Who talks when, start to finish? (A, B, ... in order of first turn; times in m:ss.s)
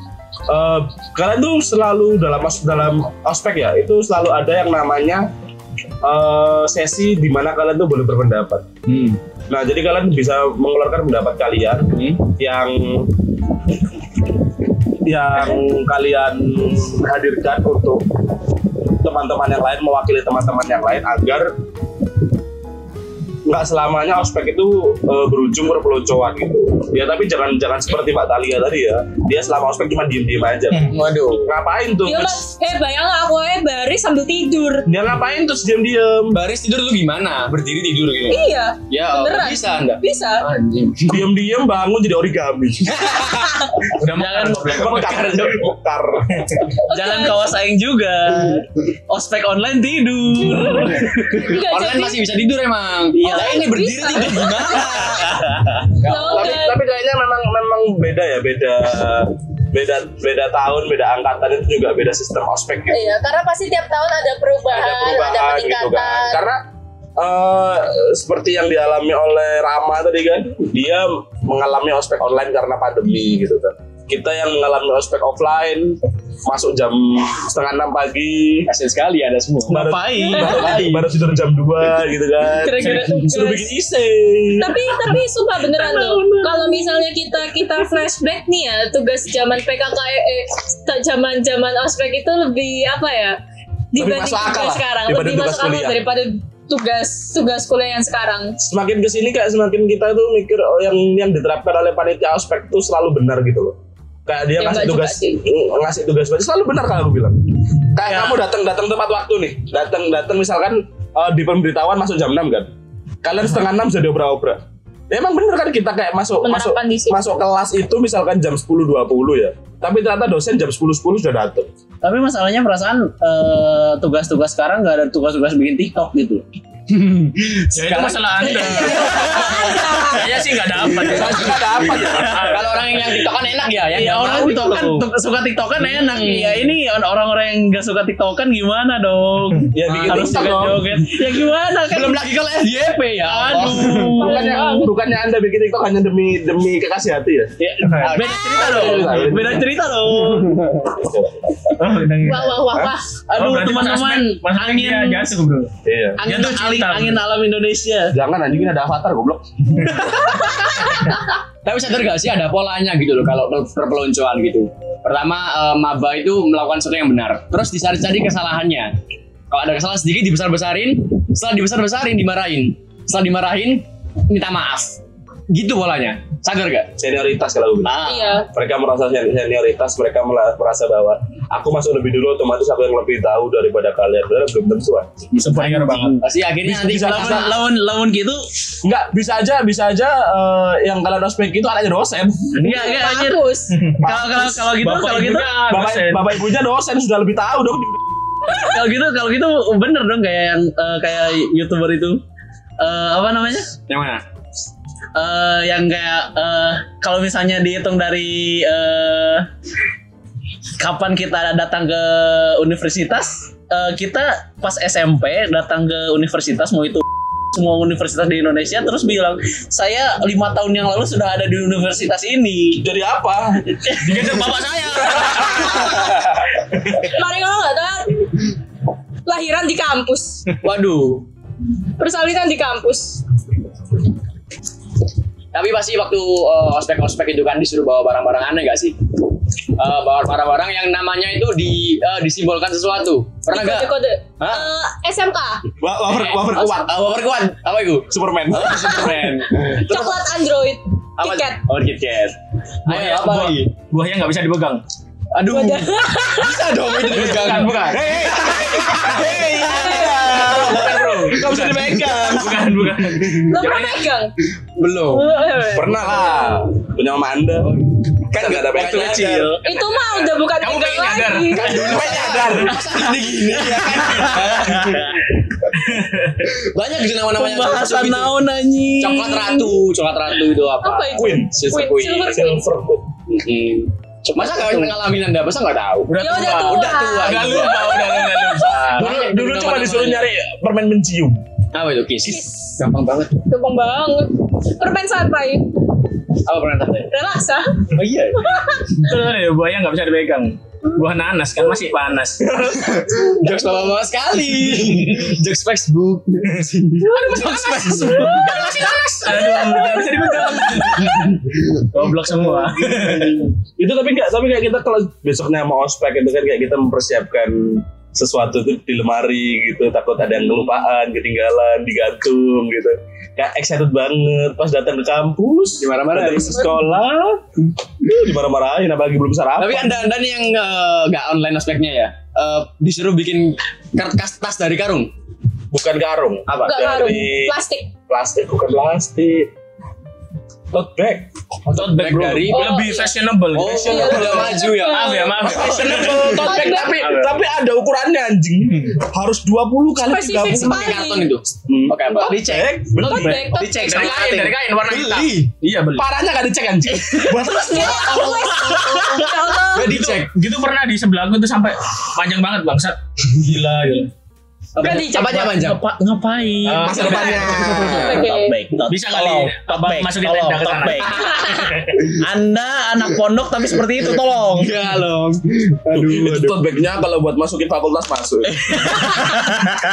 0:00.5-0:05.2 A
0:06.0-0:08.7 A
0:08.9-0:09.2 B
0:09.5-0:13.2 A
0:11.9-0:12.2 B
0:15.0-0:18.1 A
0:18.8-0:21.5 A
0:23.4-0:32.4 A
0:30.9-0:31.5 B
0:32.0-0:34.9 C
0:34.8-0:36.4 A
0:36.3-0:41.3 B
0:38.3-0:40.4 C
0:41.1-0:43.1 A
0:42.9-0:43.6 B
0:43.2-0:43.7 C
0:43.9-0:45.6 D
0:44.1-0:44.7 E
0:44.6-0:46.7 A
0:46.9-0:47.6 C
0:46.9-0:51.4 E
0:51.4-0:52.2 C
0:51.4-0:55.5 B
0:53.2-0:53.7 E
0:53.2-0:55.4 C
0:55.2-0:55.9 E
0:56.0-0:56.8 C
0:56.0-1:03.1 A
1:02.9-1:06.4 C
1:04.7-1:06.6 A
1:07.2-1:18.7 A
1:18.7-1:21.0 B
1:19.7-1:25.1 A
1:19.7-1:21.0 E
1:20.2-1:20.8 C
1:22.5-1:23.7 C
1:24.6-1:33.4 C
1:25.8-1:26.8 E
1:33.9-1:38.6 C
1:33.9-1:36.0 A
1:38.6-1:52.7 A
1:44.6-1:45.4 C
1:53.2-2:01.7 A
1:56.4-1:57.2 C
2:02.0-2:06.4 E
2:07.0-2:07.5 B
2:07.6-2:10.4 E
2:07.7-2:12.8 D
2:09.2-2:10.0 B
2:10.9-2:12.6 A
2:12.2-2:15.1 B
2:13.9-2:22.4 E
2:16.0-2:16.6 B
2:19.7-2:21.0 A
2:21.9-2:24.0 B
2:23.0-2:24.7 E
2:23.7-2:27.5 A
2:24.2-2:24.9 C
2:27.6-2:30.7 E
2:27.8-2:28.3 D
2:28.5-2:29.7 A
2:30.8-2:31.5 A
2:31.7-2:32.7 D
2:32.2-2:33.0 C
2:32.3-2:35.4 E
2:32.7-2:32.9 A
2:33.3-2:35.7 D
2:35.8-2:36.2 A
2:36.2-2:38.1 E
2:36.2-2:37.2 D
2:38.1-2:40.0 A
2:41.6-2:48.9 B
2:49.5-2:56.9 B
2:57.0-3:05.1 A
2:57.8-2:58.4 E
2:58.0-2:58.5 C
3:05.4-3:06.2 D
3:05.5-3:07.6 B
3:05.6-3:06.2 E
3:06.6-3:07.6 A
3:06.9-3:08.4 E
3:08.8-3:12.6 A
3:12.6-3:13.4 E
3:12.6-3:13.8 C
3:13.8-3:16.3 D
3:14.0-3:15.5 E
3:14.0-3:14.8 A
3:15.7-3:18.0 A
3:18.5-3:22.2 E
3:22.8-3:23.8 E
3:23.9-3:24.2 B
3:25.1-3:29.5 E
3:30.8-3:42.8 E
3:42.8-3:44.4 A
3:44.0-3:46.1 D
3:45.2-3:45.8 A
3:47.0-3:48.5 C
3:49.2-3:50.5 C
3:50.6-3:51.2 B
3:52.0-3:53.2 C
3:55.5-3:59.0 B
3:59.8-4:04.7 B
4:03.5-4:05.7 C
4:05.8-4:07.0 A
4:06.1-4:10.2 B
4:08.1-4:09.0 A
4:08.6-4:11.6 C
4:11.2-4:12.4 B
4:12.9-4:13.7 B
4:12.9-4:14.8 D
4:15.3-4:20.9 B
4:15.5-4:17.3 C
4:17.1-4:18.2 D
4:17.4-4:22.9 A
4:19.5-4:20.7 C
4:20.2-4:24.1 D
4:21.4-4:22.2 B
4:23.3-4:24.3 C
4:24.8-4:25.4 B
4:25.1-4:26.6 C
4:25.7-4:27.7 A
4:27.6-4:29.6 B
4:28.3-4:29.5 A
4:29.6-4:32.4 C
4:30.6-4:33.0 D
4:31.6-4:33.0 A
4:31.8-4:35.3 B
4:34.0-4:34.4 D
4:35.7-4:36.6 D
4:36.6-4:38.4 B
4:37.3-4:39.7 E
4:39.0-4:42.6 B
4:40.8-4:42.7 C
4:41.1-4:41.6 A
4:42.3-4:43.1 A
4:43.3-4:50.2 B
4:44.4-4:44.9 E
4:46.1-4:49.2 D
4:46.2-4:48.7 C
4:48.9-4:51.4 A
4:51.7-4:53.4 B
4:52.2-4:52.7 C
4:53.5-4:55.7 C
4:56.4-4:57.1 B
4:57.1-4:58.9 C
4:57.9-4:58.6 B
4:59.0-5:02.9 D
5:02.5-5:11.3 B
5:07.0-5:11.3 C
5:08.3-5:13.4 D
5:13.0-5:27.4 A
5:25.8-5:26.7 B
5:28.0-5:30.1 A
5:29.6-5:35.1 B
5:35.7-5:37.5 A
5:36.6-5:37.9 C
5:38.1-5:39.5 A
5:40.7-5:41.3 A
5:41.7-5:47.4 D
5:41.7-5:42.8 B
5:42.5-5:43.2 C
5:43.5-5:46.5 B
5:43.6-5:44.5 A
5:43.7-5:45.5 C
5:45.6-5:51.0 A
5:46.2-5:47.1 C
5:50.0-5:51.3 C
5:50.4-5:52.6 B
5:51.7-5:53.6 A
5:51.9-5:54.6 E
5:52.1-5:52.3 C
5:53.0-5:54.2 C
5:53.6-5:56.1 D
5:53.9-5:54.2 B
5:54.8-5:55.5 B
5:55.9-5:58.4 A
5:57.3-6:00.0 C
5:57.8-6:00.3 B
5:57.9-5:59.0 E
5:59.9-6:04.1 D
6:04.8-6:14.8 E
6:04.8-6:05.8 B
6:06.6-6:07.5 D
6:06.7-6:08.0 B
6:06.8-6:08.2 A
6:07.7-6:08.5 C
6:08.9-6:11.5 D
6:11.2-6:11.8 B
6:14.6-6:16.6 B
6:15.9-6:18.8 A
6:18.6-6:19.5 B